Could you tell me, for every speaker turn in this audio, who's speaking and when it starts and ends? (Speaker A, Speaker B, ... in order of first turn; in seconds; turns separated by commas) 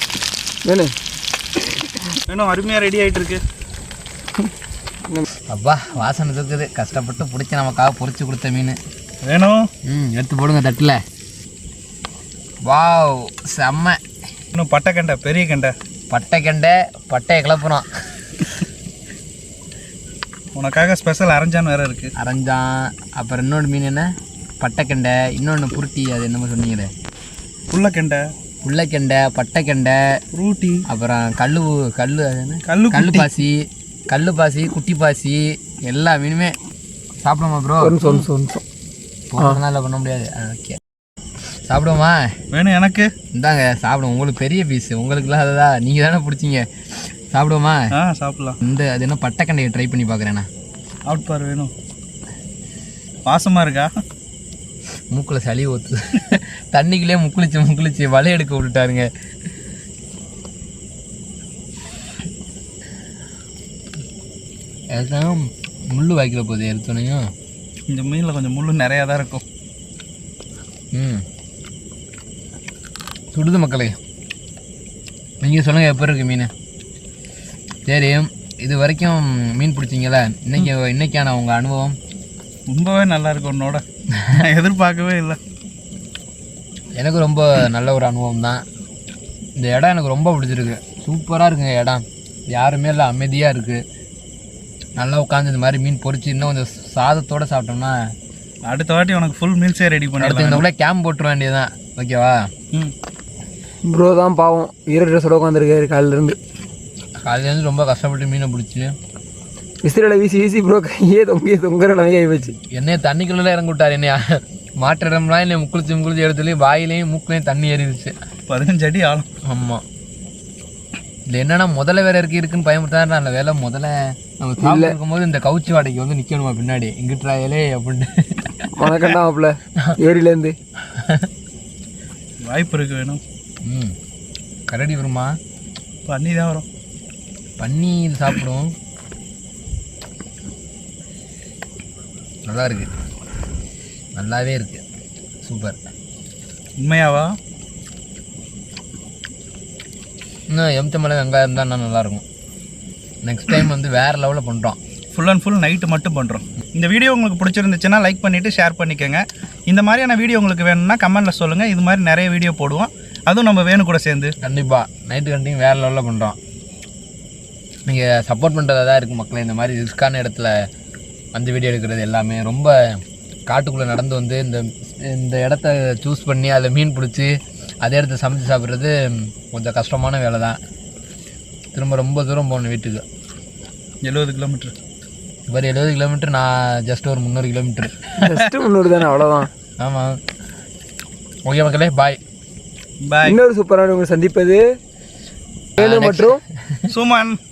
Speaker A: 0.6-0.9, Speaker B: 2.3-3.4, Speaker C: 5.5-8.8, Speaker B: 9.2-9.6, Speaker C: 9.9-11.0, Speaker C: 12.7-14.0, Speaker B: 14.5-15.7, Speaker C: 16.1-17.9, Speaker B: 20.6-22.1, Speaker C: 22.2-24.1, Speaker C: 24.6-26.9, Speaker B: 27.7-28.2, Speaker C: 28.6-30.0, Speaker B: 30.3-30.8, Speaker C: 30.9-36.5, Speaker B: 32.7-33.3, Speaker C: 37.2-38.0, Speaker A: 37.8-38.6, Speaker B: 38.0-38.3, Speaker C: 39.3-40.8, Speaker C: 41.7-42.2, Speaker B: 42.5-43.1, Speaker C: 43.3-46.7, Speaker C: 47.3-47.9, Speaker B: 48.0-48.6, Speaker C: 48.6-50.5, Speaker B: 51.1-51.7, Speaker B: 53.3-53.9, Speaker C: 55.1-59.1, Speaker C: 64.9-67.2, Speaker B: 67.9-69.4, Speaker C: 70.9-71.2, Speaker C: 73.3-74.0, Speaker C: 75.4-76.5, Speaker C: 77.9-82.0, Speaker B: 82.7-85.4, Speaker C: 87.0-88.6, Speaker C: 89.6-93.8, Speaker C: 95.0-98.0, Speaker B: 98.7-100.7, Speaker C: 100.2-102.5, Speaker A: 103.9-106.4, Speaker C: 107.2-108.9, Speaker A: 109.8-112.5, Speaker C: 112.6-118.1, Speaker B: 118.5-119.3, Speaker C: 119.5-119.8, Speaker C: 121.3-128.7, Speaker A: 124.6-125.0, Speaker A: 128.8-130.6, Speaker C: 130.9-131.3, Speaker B: 132.4-133.2, Speaker C: 133.7-133.9, Speaker C: 134.7-135.4, Speaker B: 136.1-136.7, Speaker C: 137.6-138.7, Speaker C: 142.5-142.9, Speaker C: 144.2-144.8, Speaker C: 145.4-145.8, Speaker B: 146.8-147.3, Speaker C: 150.5-152.2, Speaker C: 153.2-154.8, Speaker B: 155.1-164.3, Speaker C: 164.4-166.4, Speaker C: 167.9-170.6, Speaker C: 171.3-180.6, Speaker C: 181.7-183.0, Speaker B: 184.0-184.7, Speaker C: 185.5-188.3, Speaker A: 188.2-189.5, Speaker C: 189.8-190.2, Speaker C: 191.5-192.2, Speaker B: 193.0-193.4, Speaker A: 193.2-194.6, Speaker C: 195.8-196.8, Speaker A: 195.8-196.4, Speaker B: 196.9-197.4